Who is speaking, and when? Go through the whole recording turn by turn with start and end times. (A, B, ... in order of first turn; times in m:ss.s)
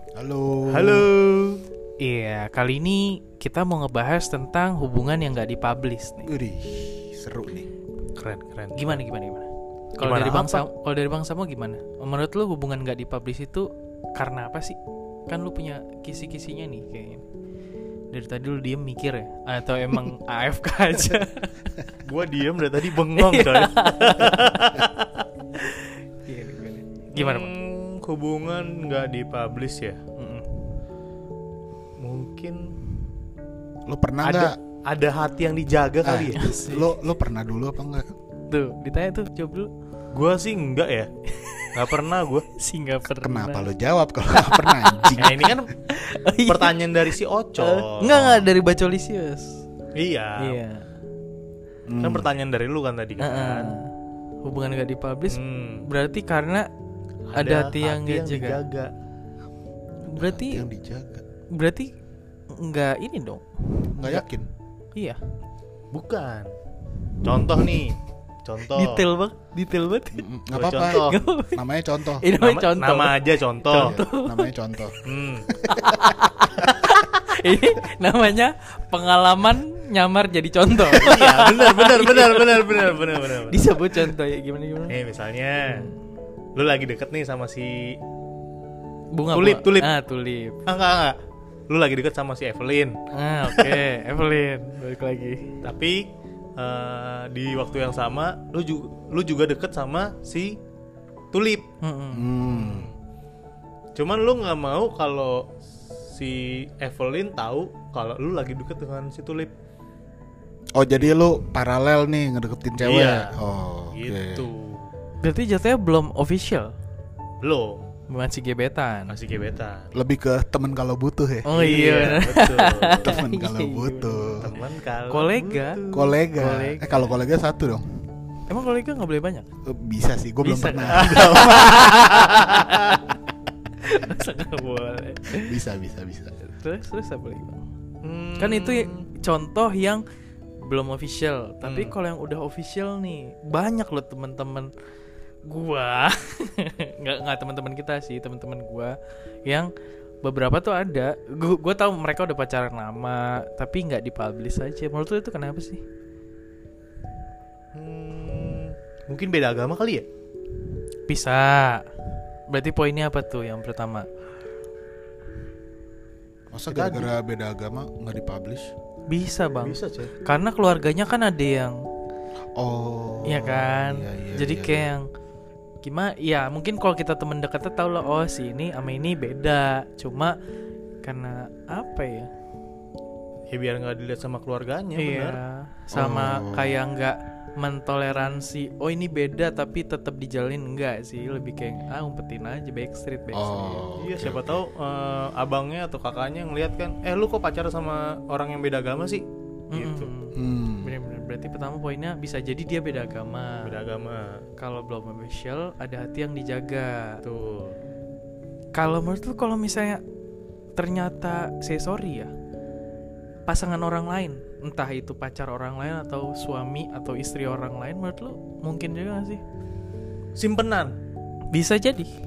0:00.2-0:01.1 A
0:00.7-0:01.6 B
0:02.0-0:06.3 C
0:06.2-0:07.7 A
0:08.2-0:09.0 B
0:08.7-0:09.4 C
0:10.0-0:17.2 C
0:10.0-0:10.6 B
0:18.1-0:21.9 C
0:22.0-0:25.1 B
0:23.1-0:24.8 C
0:25.5-0:27.5 C
0:27.2-0:30.0 B
0:30.2-0:30.8 C
0:32.0-0:32.7 B
0:33.8-0:34.6 A
0:34.2-0:36.4 B
0:36.0-0:38.1 A
0:36.3-0:37.0 C
0:38.5-0:39.7 C
0:40.1-0:41.1 B
0:41.3-0:41.9 C
0:41.7-0:42.4 B
0:42.5-0:43.7 C
0:43.2-0:45.5 A
0:44.3-0:49.6 C
0:45.2-0:45.7 B
0:46.4-0:48.4 B
0:50.0-0:50.6 B
0:50.4-0:50.8 C
0:51.9-0:52.3 A
0:52.0-0:53.7 B
0:53.2-0:53.9 C
0:54.4-0:56.7 C
0:55.3-0:55.8 B
0:57.3-0:58.9 B
0:57.3-0:58.6 C
1:00.1-1:00.7 C
1:00.1-1:01.2 A
1:01.5-1:01.9 C
1:02.5-1:04.2 C
1:03.9-1:04.5 A
1:05.9-1:06.5 B
1:07.2-1:09.1 B
1:08.7-1:11.6 C
1:10.1-1:12.3 A
1:10.5-1:11.2 B
1:12.2-1:14.9 C
1:12.3-1:14.0 B
1:13.7-1:15.0 A
1:15.0-1:15.5 B
1:15.5-1:16.6 A
1:15.6-1:25.0 C
1:20.8-1:24.1 B
1:24.9-1:25.9 B
1:25.6-1:26.0 C
1:26.6-1:28.0 B
1:29.1-1:30.6 C
1:29.3-1:29.9 B
1:30.6-1:31.2 B
1:31.7-1:33.0 B
1:33.1-1:35.6 C
1:33.5-1:33.8 B
1:35.6-1:40.6 B
1:41.3-1:41.6 B
1:41.8-1:42.3 C
1:42.1-1:42.9 A
1:42.5-1:43.0 B
1:43.9-1:49.5 B
1:50.7-1:54.4 A
1:52.8-1:53.3 B
1:53.9-1:54.9 B
1:55.2-1:56.7 C
1:57.4-1:57.9 B
1:58.1-1:59.1 C
1:59.1-2:00.0 B
1:59.9-2:01.6 A
2:01.5-2:04.5 C
2:01.5-2:03.1 B
2:03.0-2:04.5 A
2:04.4-2:06.2 B
2:05.1-2:05.8 C
2:05.9-2:08.0 A
2:06.3-2:07.1 C
2:08.5-2:09.4 C
2:09.6-2:12.5 A
2:10.4-2:13.0 C
2:11.0-2:13.0 B
2:13.8-2:15.6 C
2:15.4-2:16.3 A
2:16.4-2:17.6 C
2:18.0-2:19.1 B
2:18.4-2:20.0 C
2:20.6-2:24.7 C
2:21.6-2:21.9 B
2:25.4-2:29.7 C
2:30.2-2:35.8 C
2:37.7-2:40.0 B
2:41.1-2:41.8 C
2:42.5-2:44.1 C
2:46.5-2:48.7 A
2:46.7-2:47.1 B
2:49.1-2:51.8 C
2:49.6-2:50.1 B
2:52.6-2:54.9 A
2:53.2-2:55.0 C
2:55.8-3:00.3 C
3:01.0-3:02.3 C
3:03.5-3:05.4 B
3:05.0-3:13.9 C
3:05.9-3:06.7 A
3:13.3-3:14.6 A
3:14.0-3:20.1 B
3:19.7-3:23.7 C
3:20.3-3:20.9 A
3:23.6-3:24.4 B
3:24.6-3:27.2 C
3:27.2-3:27.8 B
3:28.7-3:30.0 C
3:30.8-3:32.3 C
3:33.5-3:39.4 C
3:40.4-3:41.0 B
3:41.5-3:42.1 C